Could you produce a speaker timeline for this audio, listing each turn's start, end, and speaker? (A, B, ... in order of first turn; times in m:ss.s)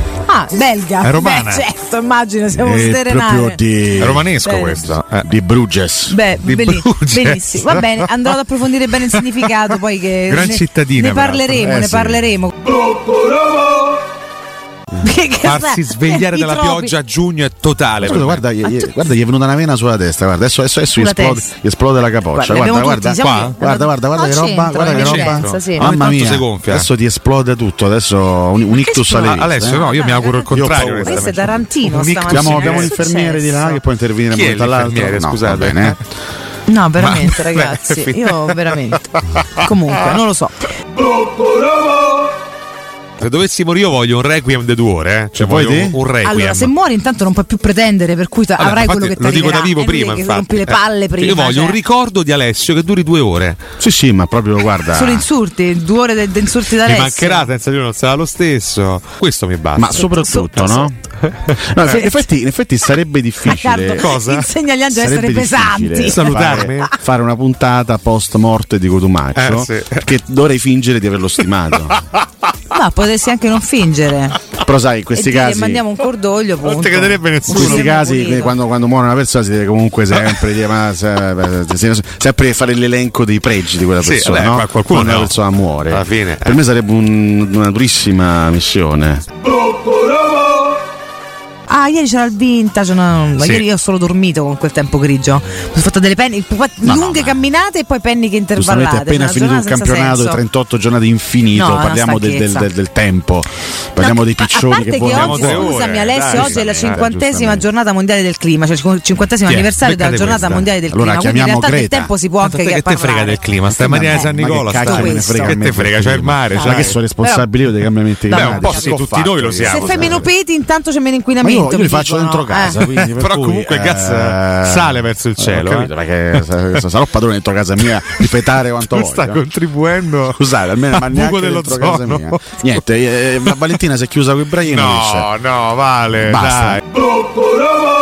0:00.2-0:03.6 A
0:01.0-0:01.6 B
0:02.5-0:04.3 C
0:04.0-0:05.3 B
0:04.4-0:04.8 A
0:05.1-0:06.2 C
0:06.1-0:12.5 A
0:06.4-0:08.4 B
0:09.2-0:09.5 B
0:10.3-0:11.6 B
0:11.6-0:12.2 C
0:15.0-0:16.9 A
0:15.4-0:18.4 B
0:18.0-0:29.8 C
0:18.6-0:19.0 A
0:20.9-0:21.5 A
0:22.3-0:25.9 A
0:23.2-0:23.6 B
0:24.8-0:26.9 B
0:28.8-0:30.5 A
0:29.1-0:32.9 B
0:30.5-0:31.5 C
0:31.0-0:33.8 A
0:32.2-0:36.0 C
0:34.3-0:36.0 B
0:36.7-0:40.7 A
0:37.0-0:39.0 B
0:43.2-0:46.7 B
0:45.4-0:46.0 C
0:46.2-0:51.8 A
0:48.6-0:53.6 B
0:53.8-0:55.2 C
0:54.9-0:57.5 A
0:56.8-1:01.6 B
0:59.8-1:00.9 C
1:00.0-1:00.5 A
1:01.5-1:04.1 C
1:03.4-1:06.9 A
1:04.0-1:04.5 B
1:04.9-1:12.0 C
1:06.1-1:06.9 B
1:09.4-1:10.0 B
1:12.7-1:14.4 A
1:14.6-1:15.8 C
1:15.1-1:18.5 A
1:16.6-1:17.9 B
1:17.5-1:29.2 C
1:24.0-1:25.3 B
1:25.9-1:26.6 B
1:31.7-1:40.4 A
1:33.4-1:33.6 B
1:36.8-1:37.4 C
1:38.6-1:47.6 C
1:41.5-1:42.7 A
1:44.0-1:55.6 A
1:45.0-1:47.5 B
1:49.5-1:50.7 B
1:50.9-1:52.1 C
1:52.4-1:57.0 B
1:53.7-2:00.2 C
1:56.6-1:57.4 A
1:58.3-1:58.9 A
1:58.3-2:00.2 B
1:59.6-2:02.8 A
2:01.4-2:09.4 C
2:02.8-2:06.4 B
2:08.9-2:12.6 B
2:10.3-2:15.3 C
2:14.6-2:16.8 B
2:16.2-2:16.8 C